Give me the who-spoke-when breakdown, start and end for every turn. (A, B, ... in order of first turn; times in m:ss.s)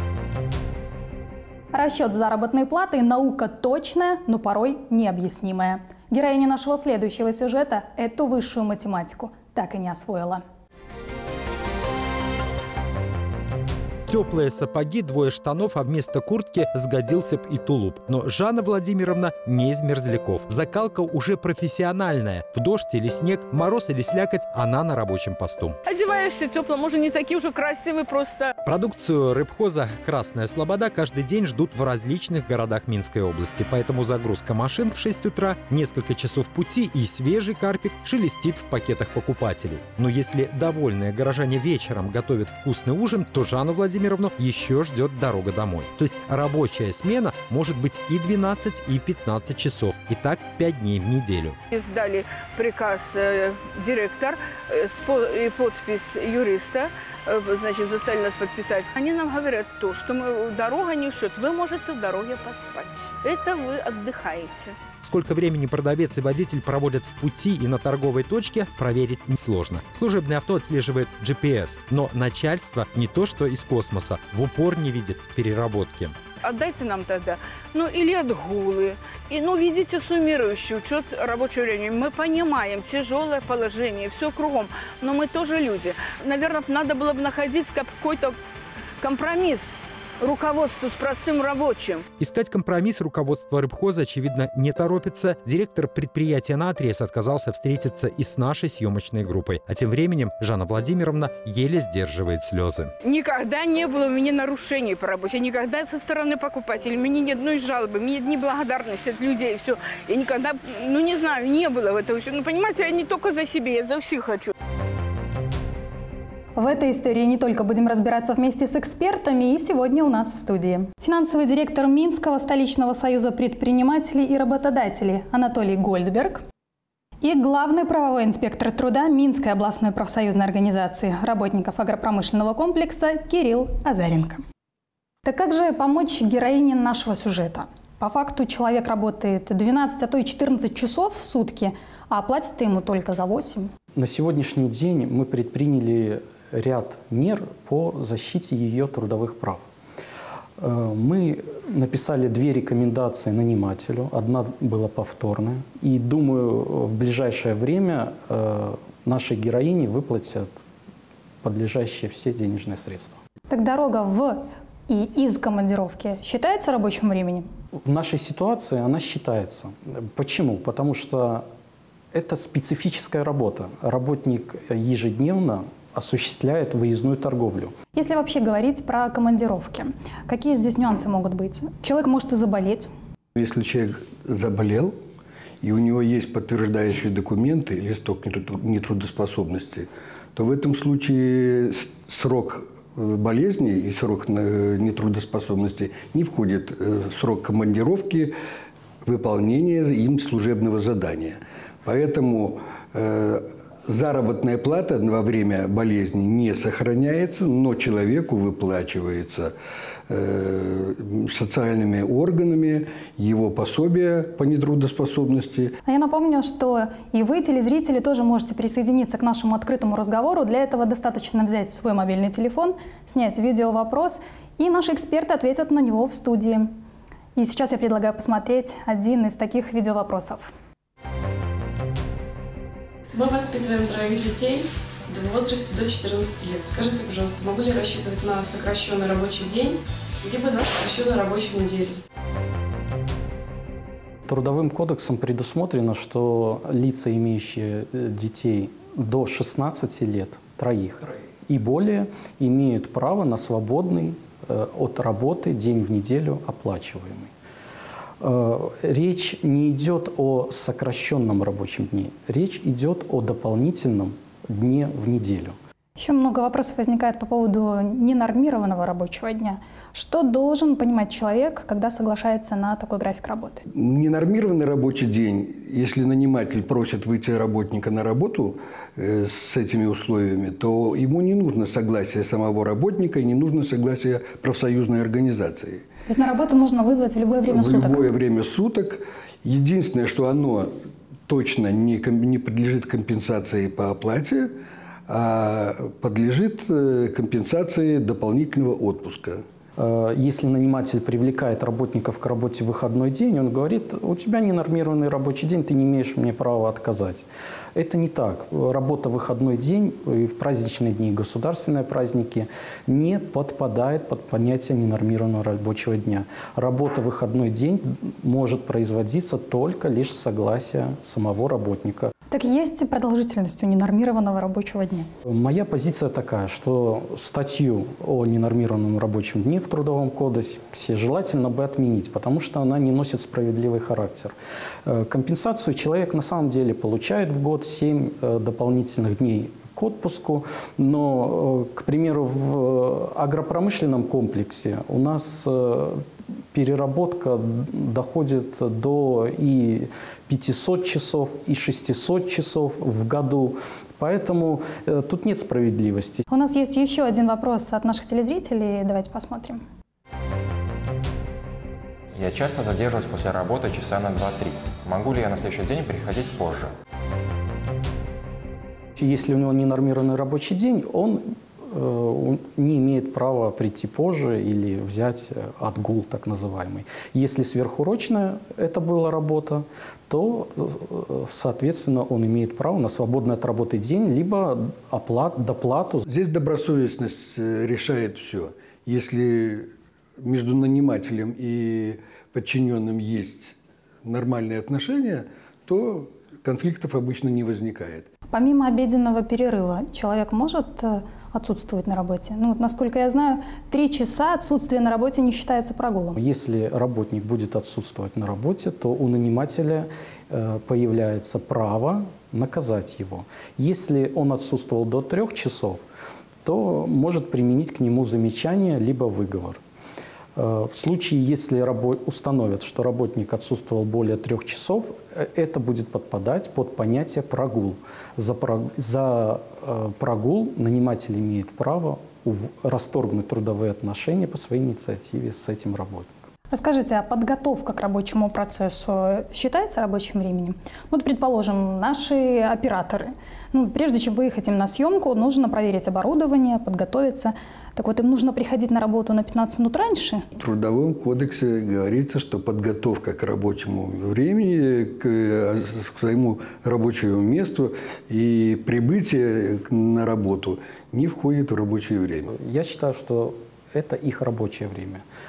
0:01.7-0:10.4 A
0:14.1-0:25.8 B
0:25.9-0:28.5 C
0:28.6-0:51.6 B
0:51.7-1:04.7 C
1:05.0-1:16.2 B
1:16.4-1:28.4 C
1:29.0-1:32.0 C
1:32.2-1:42.9 B
1:43.1-1:54.5 C
1:56.6-2:06.4 A
2:07.2-2:14.4 A
2:15.2-2:23.7 A
2:23.9-2:29.6 D
2:30.6-2:40.5 D
2:41.4-2:43.2 D
2:43.5-2:47.5 A
2:47.9-2:51.4 D
2:52.1-2:57.7 D
2:57.9-3:02.9 A
3:03.4-3:04.9 E
3:05.6-3:18.3 E
3:19.0-3:29.5 E
3:30.1-3:35.8 E
3:35.8-3:46.7 A
3:47.4-3:50.5 A
3:53.1-4:02.0 F
4:04.3-4:17.3 D
4:18.2-4:25.5 D
4:26.0-4:33.6 A
4:33.8-4:45.8 E
4:46.1-4:48.0 A
4:47.5-4:50.7 E
4:51.3-4:54.5 E
4:55.1-4:59.4 E
4:59.8-5:22.1 D
5:22.3-5:25.1 A
5:25.3-5:34.3 D
5:34.8-5:56.2 D
5:56.3-5:59.6 A
6:02.1-6:06.7 G
6:09.0-6:26.0 D
6:26.1-6:38.1 E
6:38.3-6:46.2 A
6:46.2-6:55.8 D
6:56.4-6:59.6 D
7:00.4-7:16.1 D
7:16.5-7:30.2 A
7:30.4-7:42.3 E
7:42.3-7:45.0 D